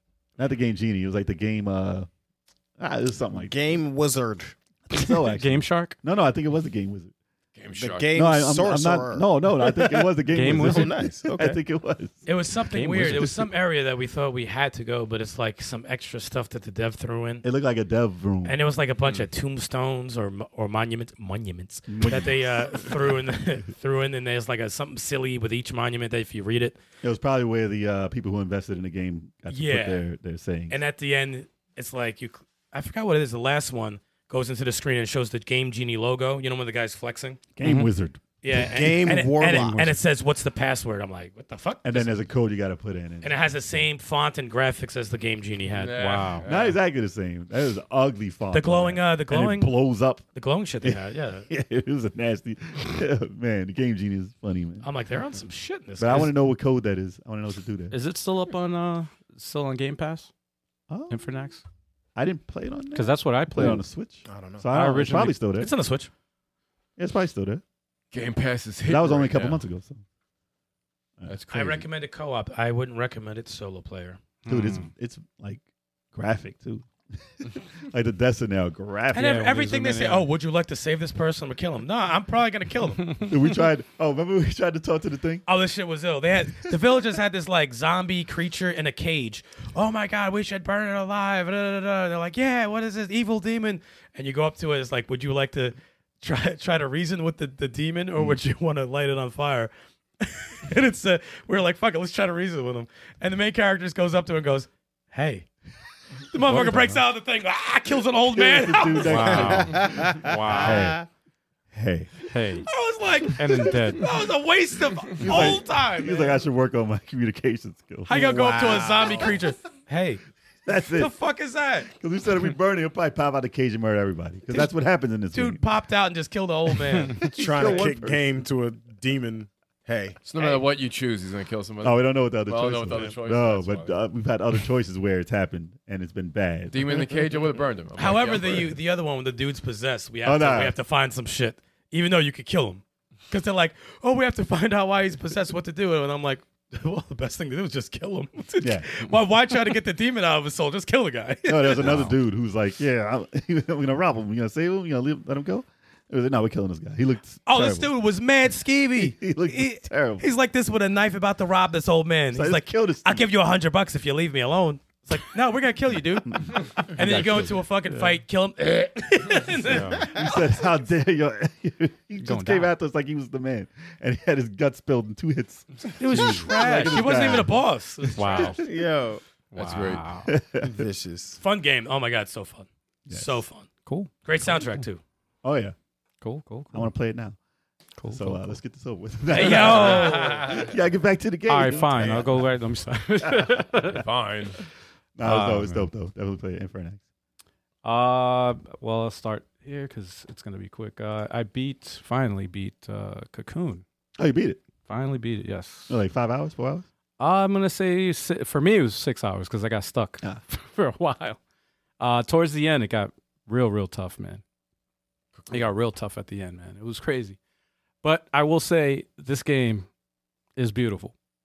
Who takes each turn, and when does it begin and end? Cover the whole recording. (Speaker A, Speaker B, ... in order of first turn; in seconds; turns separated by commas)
Speaker A: 0.4-2.1, Speaker A: 2.8-3.5, Speaker B: 3.3-4.5, Speaker A: 4.9-7.1, Speaker C: 4.9-6.0, Speaker D: 7.5-8.1, Speaker B: 7.8-11.6, Speaker A: 8.1-12.3, Speaker C: 10.3-10.9, Speaker E: 12.2-17.4, Speaker C: 12.7-13.3, Speaker A: 12.9-13.5, Speaker A: 17.4-18.6, Speaker E: 18.4-26.8, Speaker A: 21.9-23.1, Speaker A: 27.0-30.8, Speaker E: 29.5-30.0, Speaker E: 30.7-37.4, Speaker A: 37.5-38.2, Speaker C: 37.6-37.9, Speaker E: 38.4-42.1, Speaker B: 38.5-40.0, Speaker A: 41.8-43.4, Speaker E: 43.2-45.9, Speaker D: 45.7-46.8, Speaker C: 45.9-46.5, Speaker A: 46.4-50.2, Speaker E: 48.5-51.5, Speaker A: 50.8-54.9, Speaker E: 54.8-56.3, Speaker A: 56.0-57.9, Speaker C: 57.9-60.3, Speaker A: 60.9-61.2, Speaker C: 61.1-61.6, Speaker A: 62.1-65.7, Speaker C: 62.9-63.8, Speaker B: 64.3-64.7, Speaker C: 64.7-65.4, Speaker E: 65.5-66.1, Speaker A: 67.0-67.6, Speaker D: 68.1-69.6, Speaker A: 68.8-70.0, Speaker D: 71.3-71.9, Speaker E: 71.5-74.2, Speaker C: 74.4-74.9, Speaker A: 74.5-79.4, Speaker E: 79.1-83.3, Speaker C: 79.1-80.3, Speaker A: 83.2-85.4, Speaker E: 85.5-105.5, Speaker E: 106.3-109.5, Speaker A: 106.4-107.0, Speaker A: 108.3-111.0, Speaker C: 109.0-110.9, Speaker B: 109.3-111.0, Speaker A: 111.7-112.3, Speaker C: 112.3-112.7, Speaker E: 112.6-116.4, Speaker C: 113.3-114.0, Speaker A: 115.2-119.0, Speaker E: 118.0-120.2, Speaker B: 118.1-119.4, Speaker A: 120.6-121.1, Speaker E: 120.9-121.9, Speaker A: 121.9-125.6, Speaker E: 125.3-127.9, Speaker A: 127.2-128.2, Speaker B: 127.3-130.2, Speaker D: 130.2-134.0, Speaker A: 131.8-137.4, Speaker D: 136.7-138.8, Speaker E: 137.9-152.1, Speaker A: 140.2-140.8, Speaker A: 148.6-148.8, Speaker A: 151.5-157.9, Speaker E: 157.4-170.6, Speaker A: 159.0-160.3, Speaker A: 162.3-163.3, Speaker A: 166.2-168.2, Speaker C: 169.6-170.0, Speaker B: 170.0-170.3, Speaker A: 170.1-178.5, Speaker C: 172.2-172.7, Speaker E: 176.0-178.6, Speaker C: 178.1-178.6, Speaker B: 178.4-179.2, Speaker D: 179.5-180.1, Speaker C: 179.5-180.3, Speaker A: 180.2-180.8, Speaker B: 180.6-181.4, Speaker E: 181.4-183.7, Speaker A: 183.1-183.4, Speaker C: 183.8-184.1, Speaker E: 184.2-185.0, Speaker A: 185.4-185.7, Speaker C: 186.2-186.9, Speaker A: 186.7-187.4, Speaker C: 188.0-188.6, Speaker A: 188.1-192.4, Speaker E: 189.3-190.6, Speaker D: 189.9-190.7, Speaker C: 191.5-194.0, Speaker A: 193.2-193.9, Speaker D: 193.9-194.6, Speaker A: 195.2-197.0, Speaker C: 195.2-195.9, Speaker C: 197.8-203.8, Speaker A: 204.2-204.6, Speaker C: 204.9-205.9, Speaker A: 205.9-206.8, Speaker C: 207.2-211.4, Speaker C: 212.0-214.4, Speaker D: 215.3-215.7, Speaker C: 215.5-217.4, Speaker C: 218.0-219.9, Speaker C: 220.6-221.1